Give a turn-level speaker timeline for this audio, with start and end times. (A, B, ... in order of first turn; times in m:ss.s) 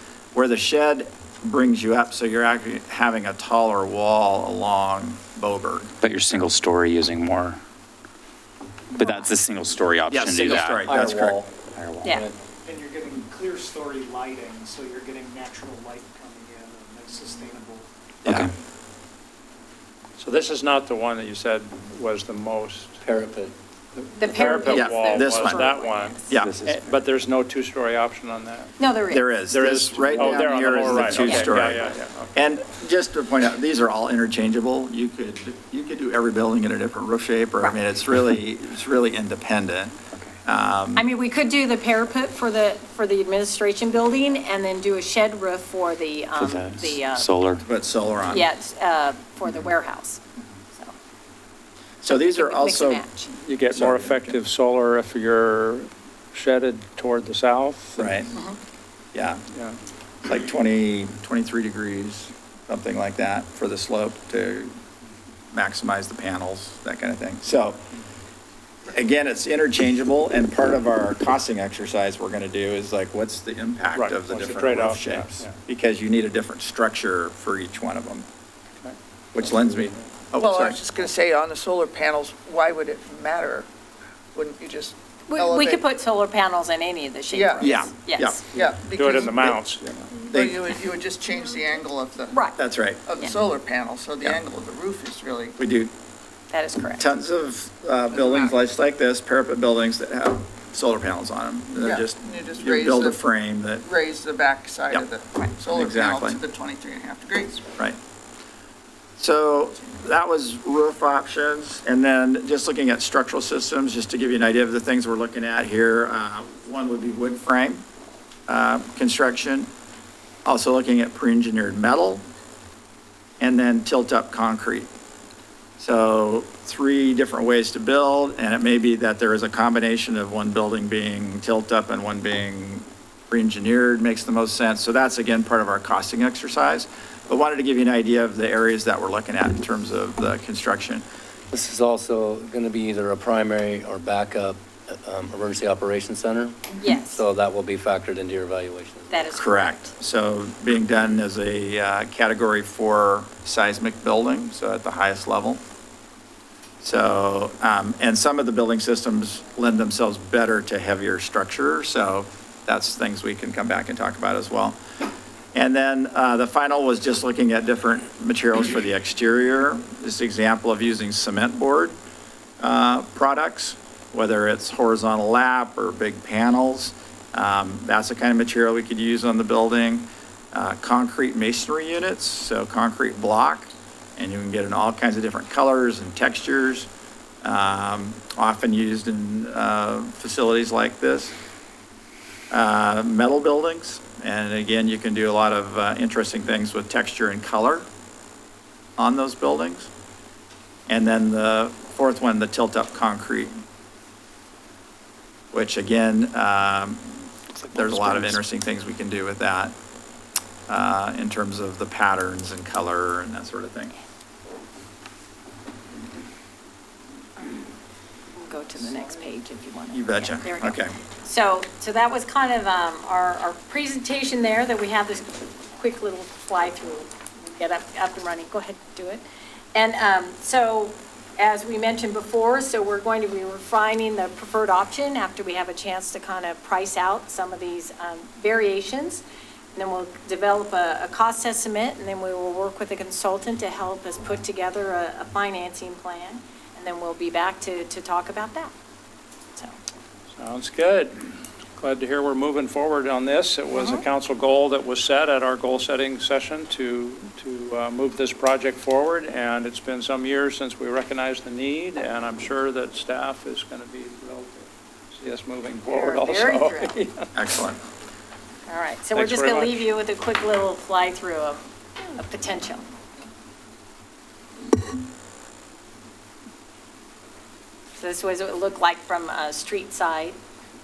0:00.3-0:05.9 A
0:06.0-0:07.6 B
0:08.9-0:10.9 B
0:10.1-0:11.4 A
0:10.8-0:11.5 C
0:11.7-0:12.2 B
0:12.0-0:12.4 C
0:12.6-0:17.8 D
0:18.2-0:18.5 B
0:20.2-0:23.0 E
0:23.0-0:24.1 C
0:24.2-0:26.3 F
0:24.3-0:28.8 E
0:24.7-0:25.7 A
0:26.3-0:26.6 A
0:26.4-0:26.7 B
0:28.8-0:29.3 F
0:29.1-0:39.9 A
0:29.4-0:32.3 E
0:31.2-0:31.5 F
0:40.4-0:41.1 A
0:41.0-0:47.3 F
0:46.4-0:47.6 B
0:47.6-0:48.5 A
0:48.3-0:50.2 F
0:52.0-0:53.0 A
0:52.1-0:53.3 F
0:53.3-0:58.2 E
0:53.7-0:54.4 A
0:58.0-0:58.3 A
0:59.1-0:59.4 A
0:59.5-0:59.8 E
1:00.2-1:04.7 A
1:05.5-1:07.8 A
1:08.9-1:18.2 A
1:13.9-1:15.5 E
1:18.8-1:19.9 E
1:19.3-1:20.8 A
1:20.4-1:23.7 G
1:24.3-1:25.8 G
1:25.3-1:28.5 F
1:27.3-1:27.8 G
1:27.6-1:28.4 A
1:28.5-1:29.6 G
1:28.9-1:29.8 E
1:29.4-1:30.6 A
1:30.2-1:32.4 G
1:32.3-1:32.6 F
1:32.6-1:33.0 A
1:33.0-1:35.6 G
1:35.6-1:35.9 A
1:36.5-1:37.0 F
1:37.0-1:43.8 A
1:38.1-1:38.5 G
1:41.8-1:43.2 G
1:43.8-1:47.7 G
1:45.7-1:46.4 A
1:49.2-1:57.8 A
1:58.5-1:59.7 A
2:00.4-2:02.2 A
2:03.4-2:04.9 A
2:05.8-2:21.0 A
2:21.5-2:29.3 C
2:26.8-2:27.2 F
2:29.1-2:29.9 F
2:29.3-2:35.6 A
2:36.8-2:44.8 A
2:45.5-2:51.9 A
2:52.6-3:06.9 A
3:07.4-3:11.4 A
3:12.5-3:17.9 A
3:19.0-3:19.9 A
3:20.9-3:23.6 A
3:25.5-3:29.8 A
3:27.7-3:28.4 B
3:30.7-3:33.9 A
3:38.3-3:49.2 F
3:39.9-3:41.0 A
3:49.7-3:59.2 F
3:59.7-4:08.7 F
4:10.4-4:11.1 E
4:11.8-4:27.3 E
4:13.7-4:14.0 F
4:25.8-4:27.0 F
4:27.3-4:27.8 A
4:28.7-4:32.8 F
4:29.1-4:29.8 E
4:38.0-4:40.4 F